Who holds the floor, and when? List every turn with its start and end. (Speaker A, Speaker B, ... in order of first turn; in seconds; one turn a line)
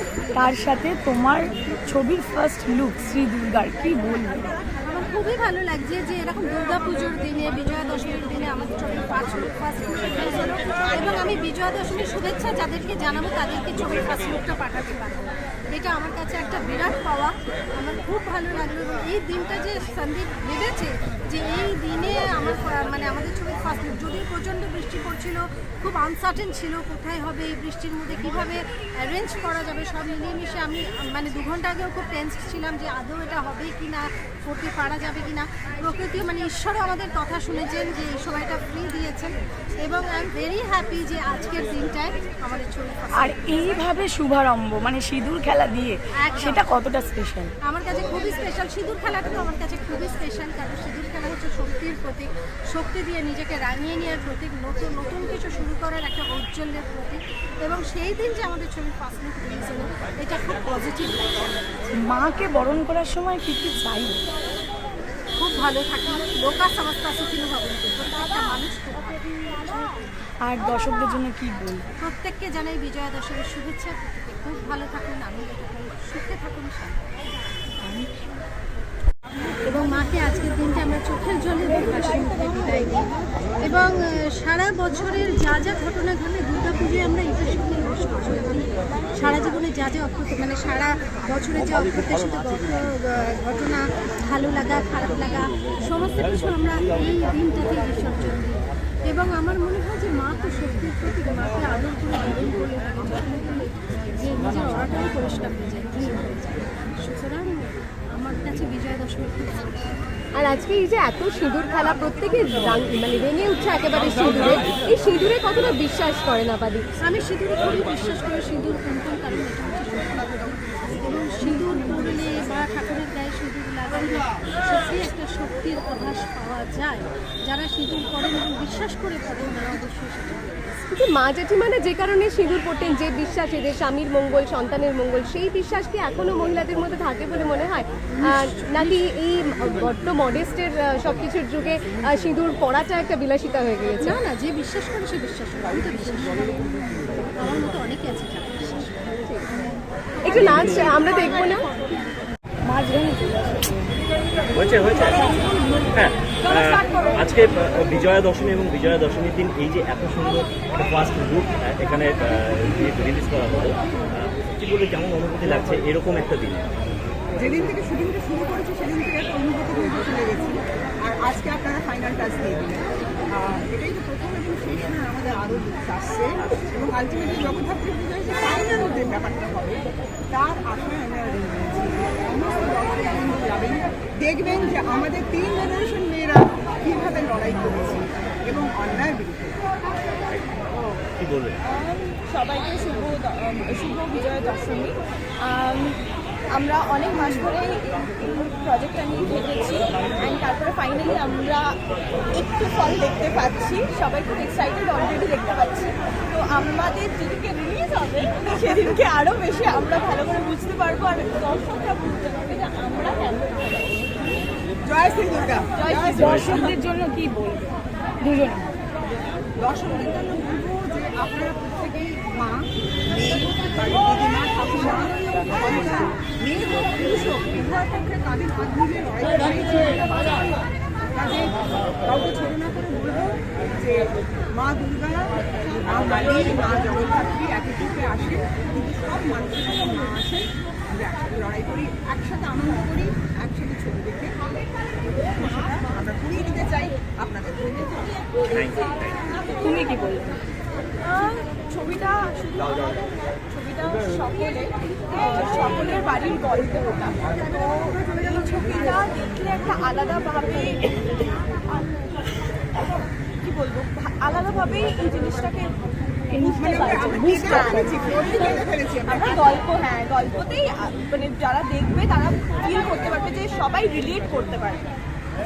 Speaker A: 0.3-4.4
Speaker B: 4.8-43.8
Speaker A: 43.2-47.5
Speaker B: 46.2-46.6
Speaker B: 47.6-62.0
Speaker A: 61.9-64.2
Speaker B: 65.4-69.8
Speaker A: 70.4-71.8
Speaker B: 72.0-77.0
Speaker B: 79.6-109.8
Speaker C: 110.3-116.8
Speaker B: 117.0-130.6
Speaker A: 121.4-122.1
Speaker C: 130.9-144.1
Speaker B: 138.2-139.0
Speaker B: 144.0-149.2
Speaker C: 150.2-151.7
Speaker B: 150.2-150.8
Speaker D: 150.3-150.9
Speaker A: 152.7-153.9
Speaker D: 154.5-155.3
Speaker D: 155.9-166.7
Speaker E: 167.4-189.6
Speaker D: 190.3-191.6
Speaker F: 191.7-194.9
Speaker F: 195.4-196.0
Speaker F: 196.5-201.6
Speaker F: 202.3-214.2
Speaker E: 214.8-216.3
Speaker F: 215.8-216.7
Speaker A: 216.2-218.7
Speaker D: 216.2-216.6
Speaker E: 219.6-230.6
Speaker E: 231.1-244.4
Speaker E: 245.2-248.2
Speaker D: 248.4-249.2
Speaker A: 249.6-250.4
Speaker F: 251.1-253.0
Speaker F: 253.5-257.9
Speaker F: 258.5-260.9
Speaker F: 263.5-265.7
Speaker A: 266.3-268.0
Speaker F: 266.4-267.1
Speaker E: 266.5-269.5
Speaker F: 267.8-268.6
Speaker F: 269.4-274.8